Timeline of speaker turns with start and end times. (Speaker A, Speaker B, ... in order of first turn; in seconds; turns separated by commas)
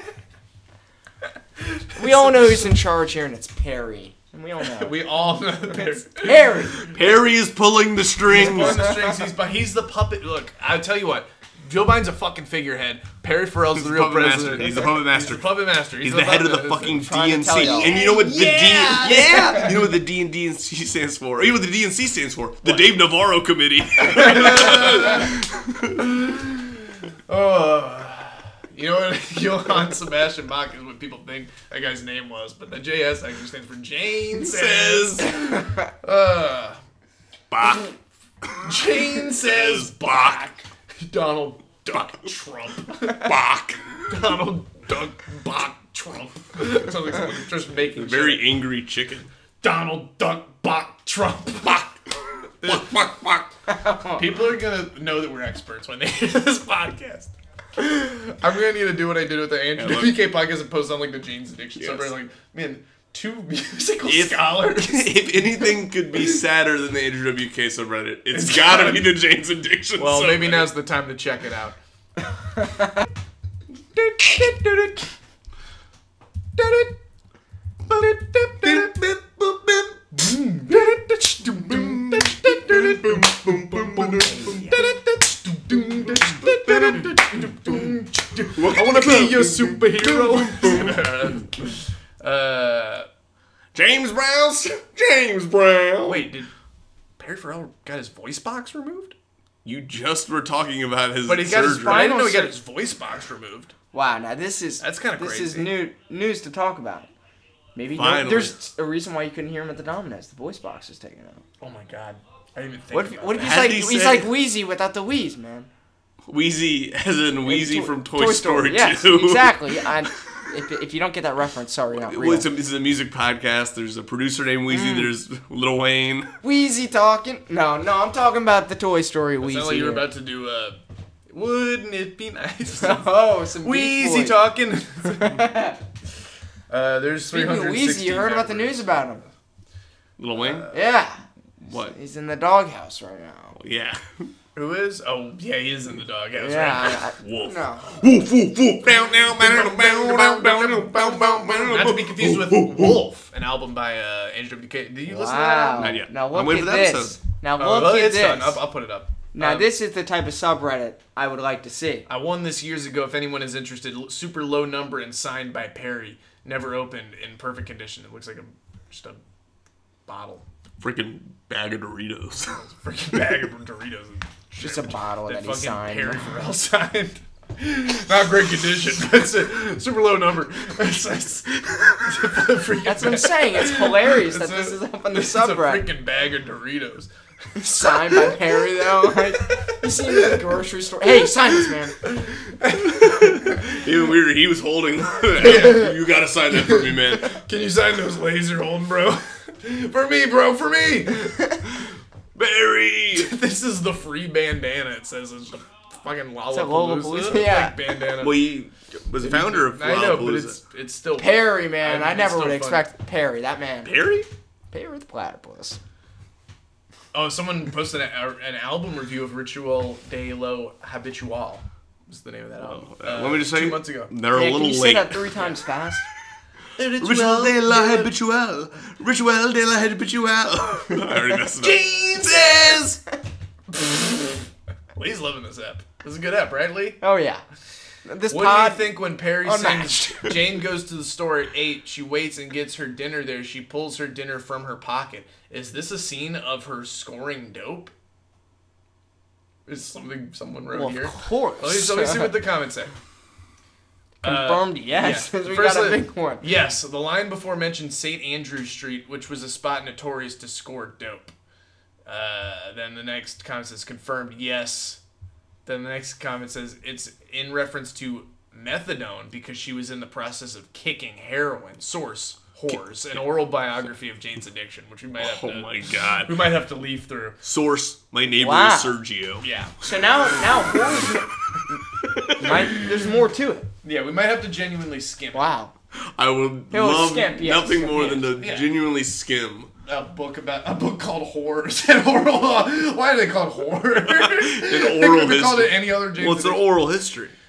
Speaker A: 1.6-2.7, Speaker B: 2.0-6.9, Speaker A: 4.6-6.9, Speaker C: 6.9-8.9, Speaker A: 8.2-17.0, Speaker C: 13.7-26.2, Speaker B: 16.9-18.1, Speaker A: 17.6-19.7, Speaker A: 22.6-22.9, Speaker A: 24.0-25.3, Speaker A: 26.1-26.7, Speaker A: 27.3-36.8, Speaker C: 34.3-35.5, Speaker C: 37.5-40.4, Speaker A: 38.6-43.3, Speaker C: 43.2-44.1, Speaker A: 44.1-48.5, Speaker C: 47.9-49.3, Speaker A: 49.6-52.0, Speaker A: 52.6-52.9, Speaker C: 52.6-53.5, Speaker B: 53.7-54.4, Speaker A: 54.1-65.7, Speaker C: 59.8-60.2, Speaker C: 61.8-62.1, Speaker C: 64.0-70.7, Speaker A: 68.3-69.1, Speaker A: 70.0-71.8, Speaker A: 74.0-74.9, Speaker A: 76.6-76.9, Speaker A: 77.9-78.9, Speaker C: 78.6-80.2, Speaker A: 80.1-93.1, Speaker C: 81.6-84.7, Speaker C: 86.4-87.0, Speaker C: 88.5-91.0, Speaker C: 93.7-96.3, Speaker A: 96.0-96.5, Speaker A: 97.2-99.2, Speaker C: 99.6-102.1, Speaker A: 101.2-103.7, Speaker B: 101.6-102.6, Speaker B: 103.9-107.1, Speaker A: 104.8-105.8, Speaker B: 107.7-111.4, Speaker C: 107.9-108.6, Speaker A: 111.6-113.7, Speaker C: 112.9-114.5, Speaker B: 112.9-115.7, Speaker C: 116.3-120.1, Speaker B: 117.4-122.5, Speaker C: 121.9-126.3, Speaker B: 124.7-125.1, Speaker B: 126.4-130.0, Speaker A: 129.4-135.6, Speaker B: 132.8-134.5, Speaker B: 135.0-135.8, Speaker A: 136.7-139.1, Speaker B: 137.3-139.2, Speaker C: 140.2-140.7, Speaker A: 140.3-140.8, Speaker B: 140.7-143.6, Speaker C: 141.6-141.9, Speaker C: 143.5-144.3, Speaker A: 144.5-147.0, Speaker B: 146.4-148.0, Speaker C: 147.2-153.0, Speaker A: 148.9-156.0, Speaker B: 155.1-158.7, Speaker C: 155.8-157.2, Speaker A: 157.6-159.7, Speaker B: 159.3-162.1, Speaker A: 162.1-169.2, Speaker A: 170.1-170.4, Speaker C: 170.8-173.2, Speaker A: 172.6-187.1, Speaker B: 174.6-176.3, Speaker B: 182.8-185.9, Speaker B: 187.6-192.1, Speaker A: 187.8-189.2, Speaker A: 192.0-193.6, Speaker C: 192.8-197.4, Speaker A: 195.4-195.9, Speaker A: 196.5-201.5, Speaker C: 202.3-203.3, Speaker A: 203.1-208.4, Speaker B: 206.5-207.8, Speaker C: 208.2-210.6, Speaker A: 209.2-212.9, Speaker B: 211.2-214.1, Speaker C: 213.8-214.3, Speaker B: 214.7-215.8, Speaker A: 217.1-224.1, Speaker C: 222.6-225.2, Speaker B: 224.3-226.0, Speaker A: 225.3-225.6, Speaker A: 226.8-228.1, Speaker C: 227.0-233.0, Speaker A: 231.6-232.8, Speaker A: 234.9-237.0, Speaker B: 237.0-237.4, Speaker B: 238.0-240.4, Speaker A: 238.3-247.9, Speaker A: 249.7-252.9, Speaker B: 250.7-252.4, Speaker B: 254.2-256.6, Speaker A: 254.2-261.3, Speaker A: 262.1-265.0, Speaker A: 265.6-277.4, Speaker C: 272.7-273.2, Speaker C: 275.2-276.4, Speaker C: 277.4-279.4, Speaker B: 278.4-279.0, Speaker A: 279.4-279.9, Speaker B: 279.8-281.3, Speaker C: 280.5-281.0, Speaker C: 282.0-282.7, Speaker B: 282.3-283.7, Speaker A: 283.8-285.5, Speaker B: 285.3-285.7, Speaker C: 285.9-289.7, Speaker B: 286.7-288.3, Speaker A: 288.3-288.7, Speaker A: 289.8-296.7, Speaker C: 294.0-297.4